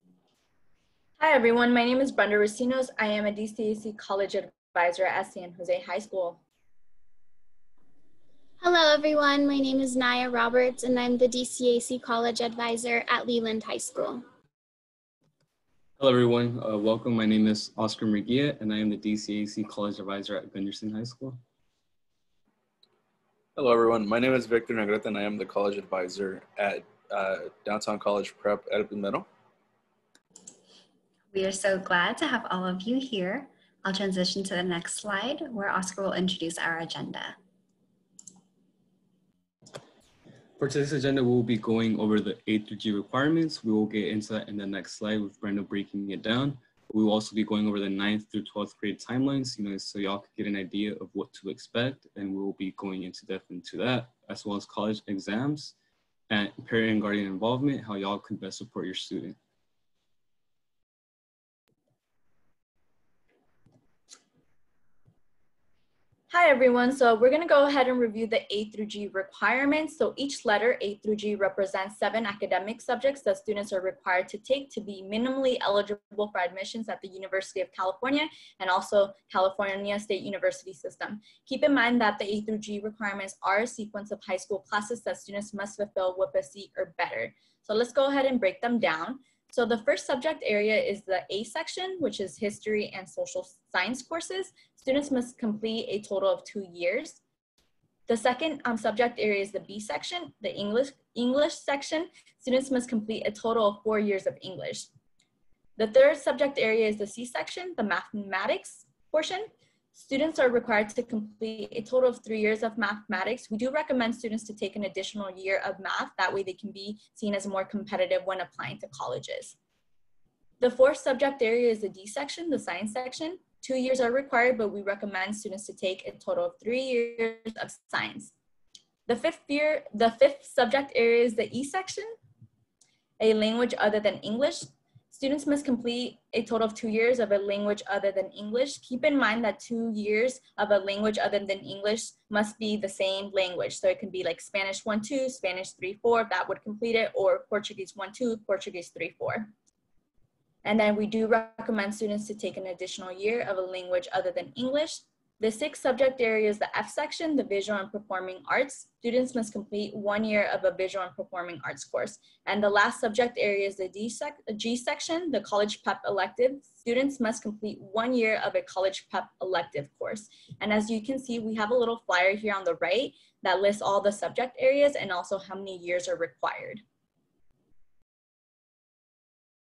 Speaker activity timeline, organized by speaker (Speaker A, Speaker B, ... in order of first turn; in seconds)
Speaker A: 1.2-6.4, 66.3-97.2, 98.1-104.9, 105.8-119.5, 120.6-128.3, 129.1-132.1, 133.2-149.5, 150.6-176.8
Speaker B: 8.6-14.2
Speaker C: 16.0-21.4, 40.6-55.7, 56.3-59.4
Speaker D: 23.6-29.2
Speaker E: 31.3-37.4